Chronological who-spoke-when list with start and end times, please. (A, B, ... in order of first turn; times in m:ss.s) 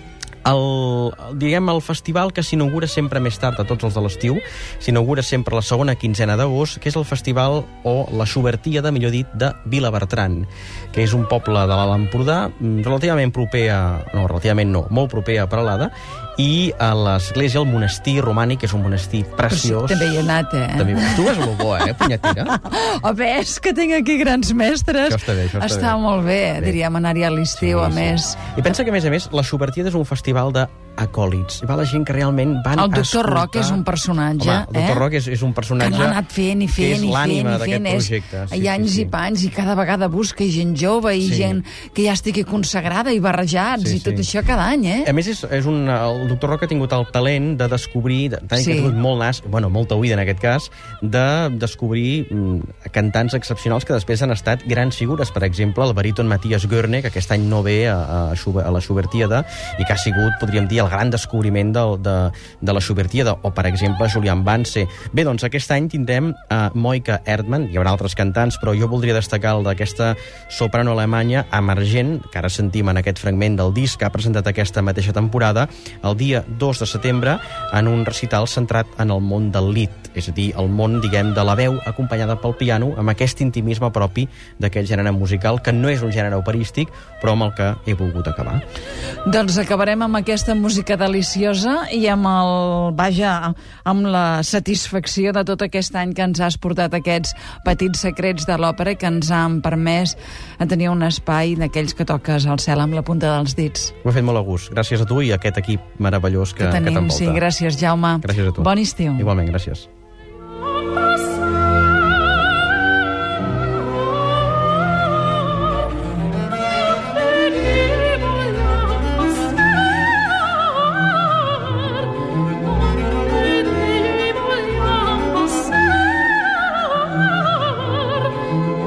0:00.4-0:22.6 A
0:19.5-0:21.4 B
0:22.0-0:28.4 B
0:25.1-0:26.0 A
0:27.6-0:33.8 A
0:32.8-0:35.0 B
0:34.4-0:36.2 A
0:35.8-0:45.1 B
0:36.8-0:39.1 A
0:41.2-0:41.6 A
0:43.8-0:44.3 A
0:45.0-1:28.6 A
0:48.6-0:48.9 B
1:29.2-1:43.9 B
1:44.0-1:47.4 A
1:46.6-1:49.3 B
1:48.2-1:49.9 A
2:04.1-2:05.8 B
2:07.7-2:08.2 B